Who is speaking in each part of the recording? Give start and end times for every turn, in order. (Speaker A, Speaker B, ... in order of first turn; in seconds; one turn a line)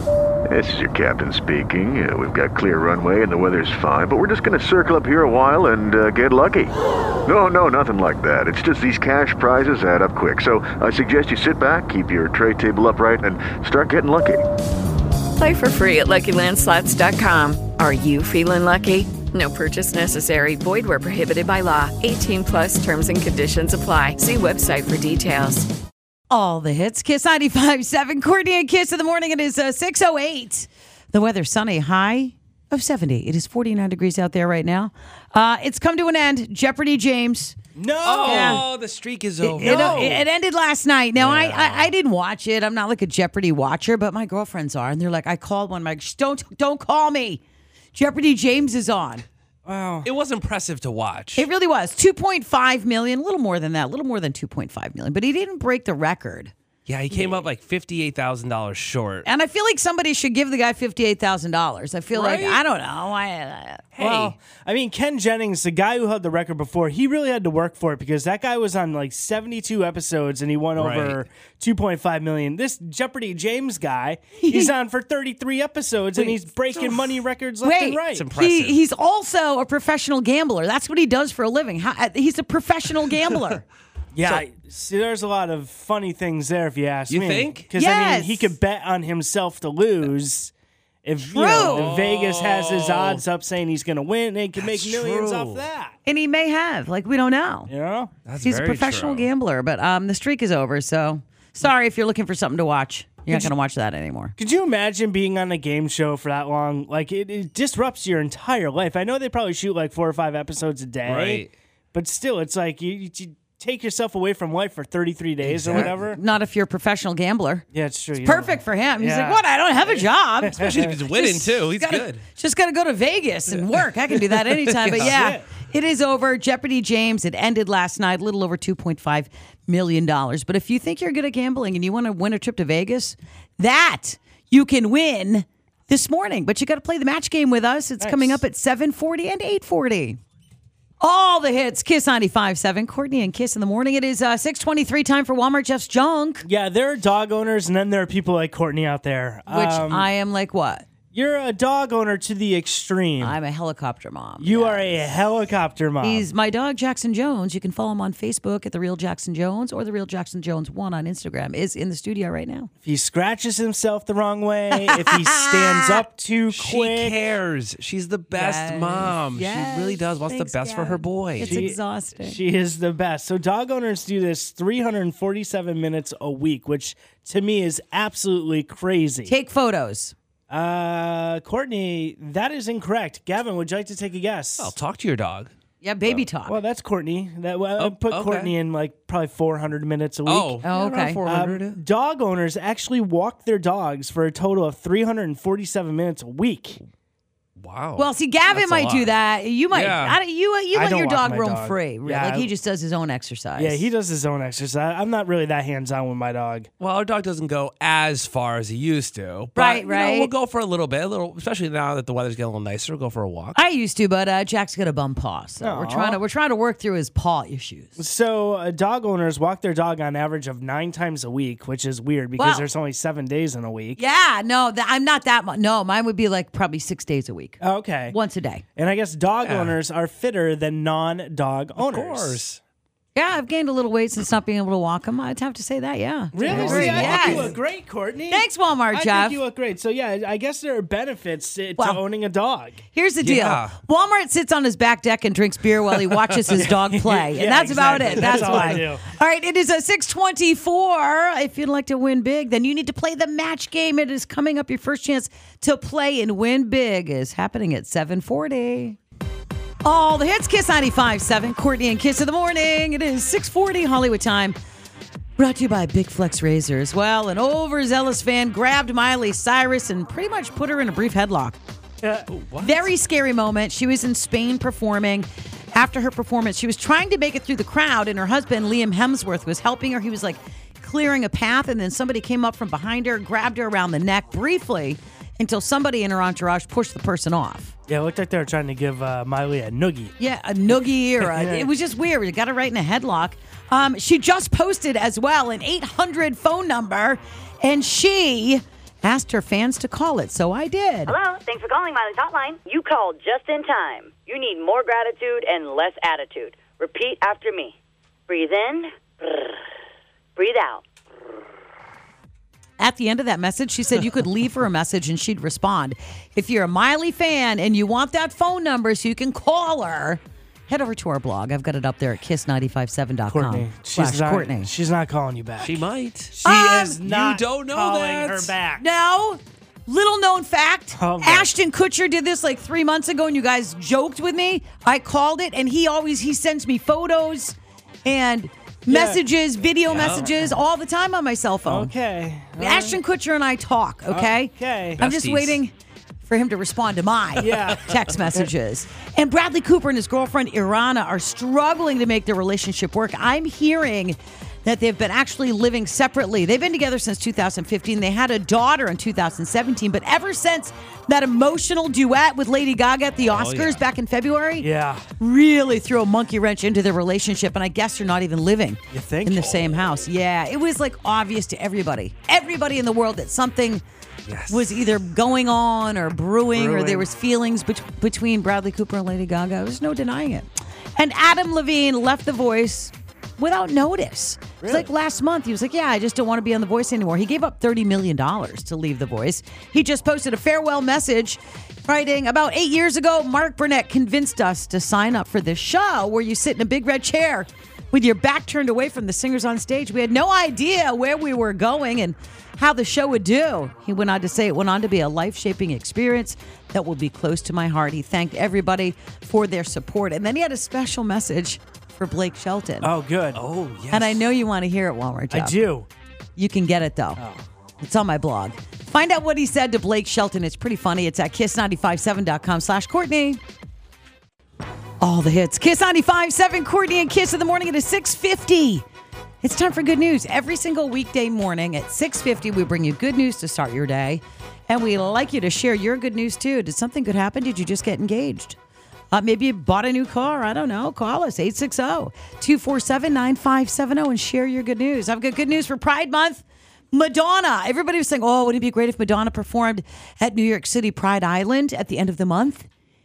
Speaker A: 0.5-6.7
Speaker A: 7.2-14.4
Speaker B: 15.4-25.7
Speaker C: 26.3-37.6
Speaker D: 37.8-38.7
Speaker E: 38.0-40.2
Speaker C: 38.2-38.7
Speaker C: 39.4-47.4
Speaker D: 39.5-40.2
Speaker E: 41.1-41.9
Speaker C: 47.9-49.2
Speaker D: 49.7-50.1
Speaker E: 50.0-51.5
Speaker C: 51.4-56.5
Speaker E: 56.9-59.3
Speaker C: 57.1-57.4
Speaker C: 59.2-63.8
Speaker E: 62.1-62.6
Speaker E: 63.9-64.4
Speaker D: 64.0-78.3
Speaker E: 70.8-71.2
Speaker C: 74.4-74.7
Speaker C: 76.2-77.0
Speaker C: 77.6-83.7
Speaker E: 78.1-78.8
Speaker D: 84.1-90.5
Speaker E: 87.1-87.7
Speaker C: 87.8-88.5
Speaker D: 91.0-96.0
Speaker C: 91.3-91.9
Speaker E: 91.4-93.2
Speaker E: 94.6-95.7
Speaker C: 96.1-97.7
Speaker D: 97.7-98.1
Speaker E: 98.2-99.3
Speaker C: 98.4-104.3
Speaker D: 103.3-103.5
Speaker D: 104.4-116.2
Speaker E: 111.0-111.5
Speaker E: 115.4-115.9
Speaker C: 115.7-117.7
Speaker D: 117.7-120.7
Speaker C: 118.2-140.2
Speaker E: 120.6-122.2
Speaker E: 124.3-125.2
Speaker D: 124.9-125.5
Speaker D: 138.0-138.4
Speaker C: 141.0-146.5
Speaker D: 146.4-150.1
Speaker C: 149.5-150.9
Speaker D: 151.1-153.4
Speaker C: 153.2-155.1
Speaker D: 154.4-156.3
Speaker C: 156.0-162.7
Speaker D: 162.8-167.2
Speaker C: 164.7-166.0
Speaker E: 166.5-171.7
Speaker C: 168.3-172.4
Speaker D: 171.4-179.3
Speaker C: 179.2-180.2
Speaker D: 180.5-184.7
Speaker E: 184.6-185.5
Speaker C: 185.8-186.6
Speaker D: 186.1-190.6
Speaker E: 187.8-188.6
Speaker E: 190.3-191.8
Speaker C: 190.6-191.2
Speaker D: 191.2-196.8
Speaker E: 197.6-199.2
Speaker C: 198.0-203.8
Speaker E: 199.7-200.2
Speaker D: 200.7-202.5
Speaker D: 203.6-206.7
Speaker E: 206.8-213.6
Speaker C: 209.6-210.3
Speaker C: 213.6-218.0
Speaker D: 215.6-216.2
Speaker D: 218.0-224.0
Speaker C: 222.4-222.7
Speaker C: 224.0-227.6
Speaker D: 227.6-228.2
Speaker C: 228.1-228.6
Speaker D: 228.8-232.4
Speaker E: 229.4-229.8
Speaker E: 231.8-232.6
Speaker C: 233.2-237.6
Speaker E: 236.3-237.6
Speaker D: 236.3-242.8
Speaker C: 238.3-239.4
Speaker C: 242.9-259.0
Speaker E: 243.2-243.7
Speaker D: 246.6-249.0
Speaker E: 248.1-248.8
Speaker C: 259.8-264.6
Speaker C: 265.4-271.6
Speaker E: 272.3-272.9
Speaker C: 272.6-287.7
Speaker D: 287.9-290.1
Speaker C: 290.2-301.2
Speaker D: 291.2-291.7
Speaker F: 301.1-307.8
Speaker F: 308.3-309.4
Speaker F: 310.4-310.8
Speaker C: 312.8-324.7
Speaker D: 323.3-328.9
Speaker E: 325.6-328.5
Speaker C: 326.4-327.0
Speaker C: 328.8-341.9
Speaker D: 330.9-331.5
Speaker D: 338.9-339.2
Speaker E: 339.9-340.5
Speaker D: 341.7-343.0
Speaker C: 342.6-345.7
Speaker D: 344.1-345.0
Speaker E: 345.0-345.6
Speaker C: 346.2-364.7
Speaker D: 347.4-348.5
Speaker E: 363.2-363.8
Speaker D: 364.6-365.1
Speaker C: 365.2-373.8
Speaker D: 368.9-369.8
Speaker E: 374.3-374.7
Speaker C: 374.5-412.9
Speaker D: 376.5-377.1
Speaker D: 384.6-384.9
Speaker D: 412.8-413.4
Speaker E: 413.4-414.3
Speaker C: 413.9-415.6
Speaker D: 415.3-415.9
Speaker C: 416.4-417.2
Speaker D: 417.2-417.4
Speaker C: 417.8-423.4
Speaker C: 425.0-428.9
Speaker C: 429.4-438.6
Speaker C: 439.1-452.7